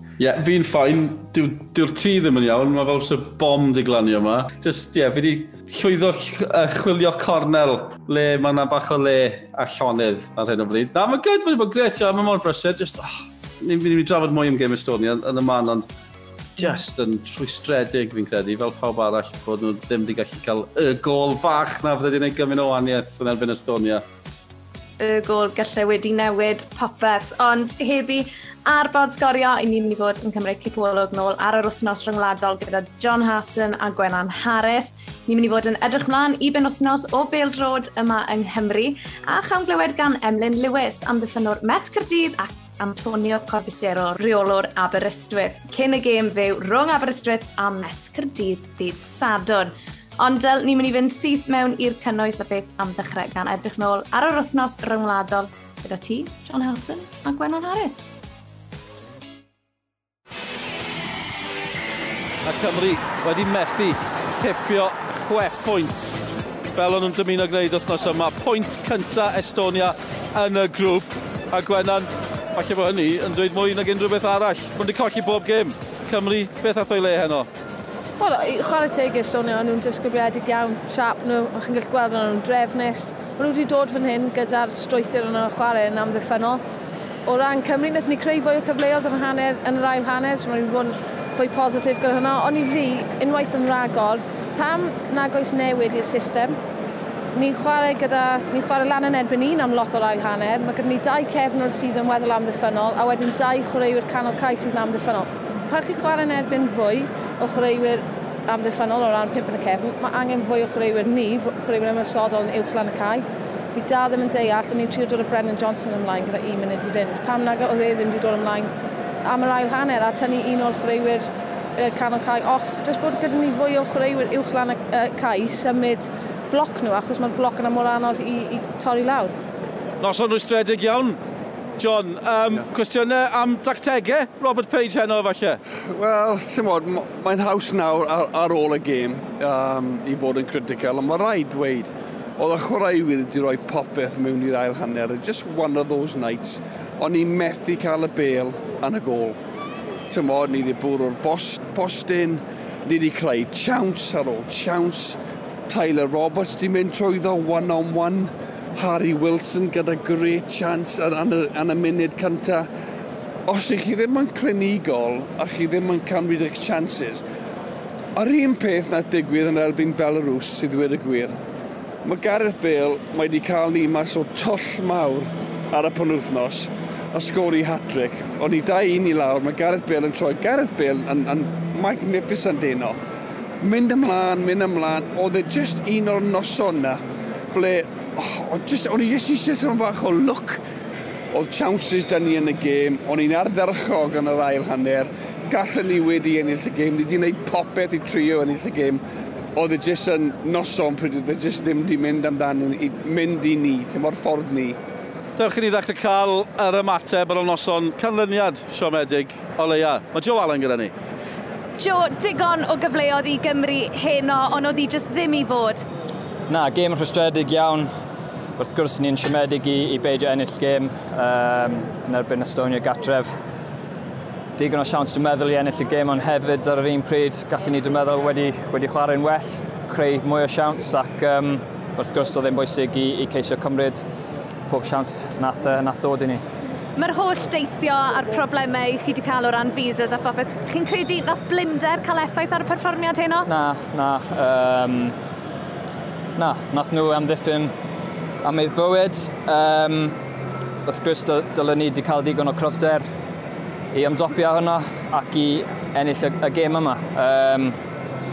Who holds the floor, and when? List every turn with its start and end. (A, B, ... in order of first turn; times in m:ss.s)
0:00.2-0:15.9 A
0:16.6-0:24.0 A
0:25.0-0:58.0 B
1:02.4-1:06.2 A
1:06.8-1:17.5 A
1:18.2-1:26.6 C
1:27.3-1:36.6 C
1:37.4-1:58.7 C
1:59.2-2:09.3 C
2:10.0-2:11.2 A
2:11.8-2:15.6 A
2:15.9-2:29.4 D
2:30.1-2:35.2 D
2:35.7-2:42.7 D
2:43.5-2:47.2 D
2:48.2-2:51.4 D
2:52.0-3:03.0 D
3:03.6-3:10.6 D
3:11.3-3:19.0 D
3:19.6-3:24.8 D
3:25.4-3:30.9 A
3:31.8-3:35.8 B
3:36.5-3:37.9 E
3:38.6-3:43.4 E
3:44.6-3:54.0 E
3:54.7-3:56.4 E
3:57.0-4:03.5 B
4:03.5-4:05.2 E
4:06.4-4:07.7 E
4:08.4-4:10.2 E
4:10.8-4:13.1 E
4:13.9-4:17.8 E